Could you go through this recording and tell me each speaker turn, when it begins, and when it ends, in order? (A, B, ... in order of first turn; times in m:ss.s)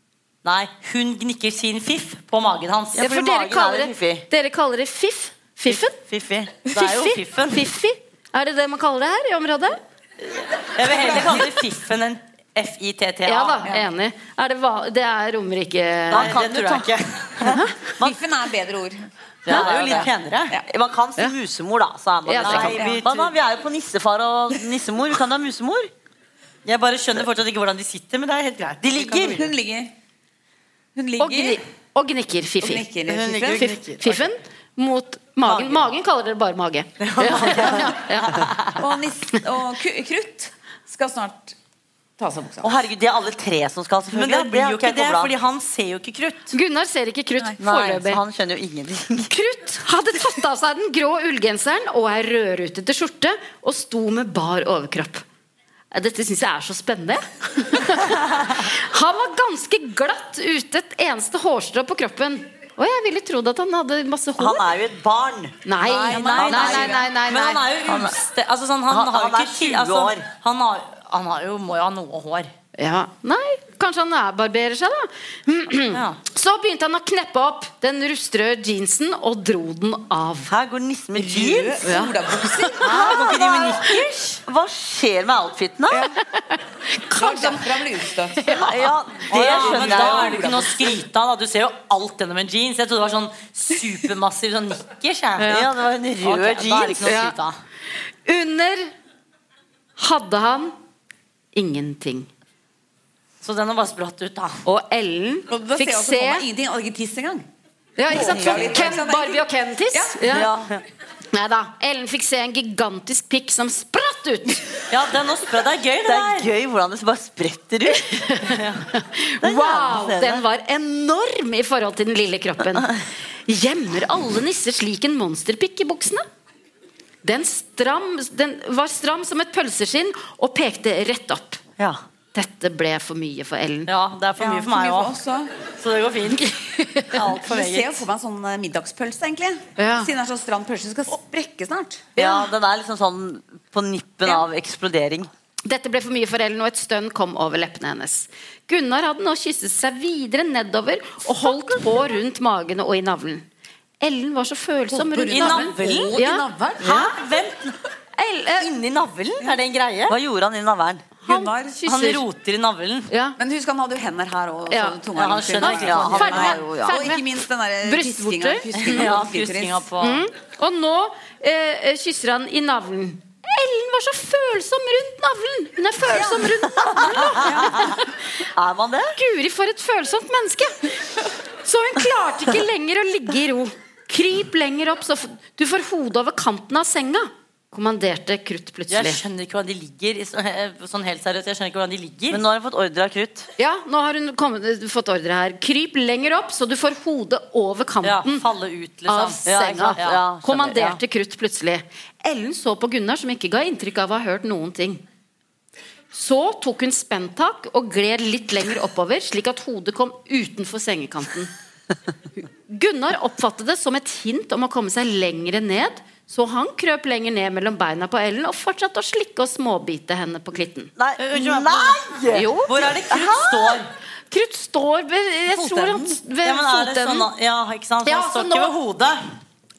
0:00.4-0:03.0 A
0:03.0-0:04.2 B
0:03.0-0:06.0 C
0:06.1-0:06.6 B
0:06.6-0:07.7 A
0:06.7-0:09.8 C
0:10.7-0:13.7 A
0:13.2-0:16.3 C
0:16.1-0:16.9 B
0:16.1-0:17.4 A
0:17.4-0:17.9 C
0:18.0-0:19.0 D
0:19.4-0:25.9 B
0:19.5-0:20.6 A
0:19.6-0:20.6 D
0:22.2-0:22.8 C
0:22.4-0:23.3 A
0:22.5-0:23.0 D
0:26.6-0:29.4 A
0:28.8-0:29.5 B
0:29.2-0:29.9 D
0:30.9-0:31.6 D
0:31.2-0:32.8 C
0:32.6-0:33.6 D
0:33.1-0:34.2 A
0:33.2-0:33.9 B
0:33.6-0:38.4 C
0:37.0-0:38.4 B
0:37.4-0:37.8 A
0:38.8-0:41.6 D
0:42.2-0:42.8 D
0:42.6-0:45.3 B
0:44.1-0:46.5 A
0:46.5-0:48.2 C
0:47.6-0:49.3 B
0:49.3-0:55.2 C
0:55.9-1:04.7 C
1:04.4-1:07.0 B
1:05.6-1:07.6 C
1:06.0-1:06.9 D
1:06.4-1:12.5 A
1:07.8-1:08.2 B
1:08.9-1:10.1 B
1:12.7-1:20.5 C
1:15.9-1:16.2 A
1:20.5-1:22.0 B
1:21.1-1:23.2 D
1:21.8-1:23.7 C
1:22.8-1:24.4 A
1:22.9-1:23.7 B
1:24.4-1:26.1 B
1:25.9-1:26.2 D
1:26.3-1:27.8 C
1:27.1-1:28.5 D
1:28.4-1:28.9 C
1:28.5-1:30.5 B
1:29.3-1:35.6 A
1:29.3-1:30.9 D
1:35.4-1:35.6 C
1:35.4-1:37.3 B
1:36.2-1:37.6 A
1:37.0-1:37.3 C
1:38.2-1:38.9 C
1:40.0-1:40.7 C
1:41.5-1:42.3 C
1:43.4-1:44.6 A
1:44.6-1:46.4 C
1:45.5-1:47.4 D
1:48.0-1:50.5 C
1:48.1-1:50.4 D
1:48.1-1:48.6 B
1:50.3-1:50.8 A
1:50.3-1:50.6 B
1:51.3-1:54.8 C
1:54.9-1:56.5 A
1:56.0-1:58.1 B
1:58.1-2:06.2 C
1:58.5-1:58.8 A
1:59.4-2:00.4 B
2:07.2-2:11.6 C
2:12.3-2:13.9 C
2:13.9-2:15.2 A
2:14.4-2:15.5 D
2:15.8-2:16.5 A
2:16.4-2:17.2 C
2:17.1-2:18.0 A
2:17.3-2:22.2 D
2:19.8-2:20.1 C
2:22.2-2:25.3 B
2:25.6-2:33.5 C
2:34.0-2:37.1 C
2:34.9-2:37.2 D
2:35.3-2:36.1 A
2:36.8-2:37.8 A
2:38.2-2:38.7 C
2:38.6-2:40.2 A
2:40.1-2:41.1 B
2:41.2-2:42.2 C
2:41.2-2:41.8 D
2:41.8-2:43.1 A
2:43.1-2:43.4 C
2:43.4-2:49.8 D
2:44.7-2:45.0 C
2:45.1-2:46.5 A
2:45.6-2:49.0 C
2:45.7-2:47.1 B
2:48.7-2:50.2 A
2:50.0-2:58.2 C
2:56.1-2:56.6 D
2:57.1-2:57.8 D
2:58.5-2:59.2 B
2:59.1-3:00.8 C
3:01.6-3:09.2 C
3:08.9-3:12.4 A
3:12.3-3:13.5 B
3:13.6-3:18.4 C
3:18.0-3:20.2 A
3:19.1-3:25.0 C
3:19.4-3:21.0 B
3:26.1-3:31.5 C
3:32.7-3:40.9 C
3:41.0-3:43.8 B
3:41.2-3:43.9 A
3:42.3-3:42.7 C
3:44.3-3:47.3 C
3:45.6-3:46.1 B
3:46.4-3:49.2 A
3:48.0-3:48.7 C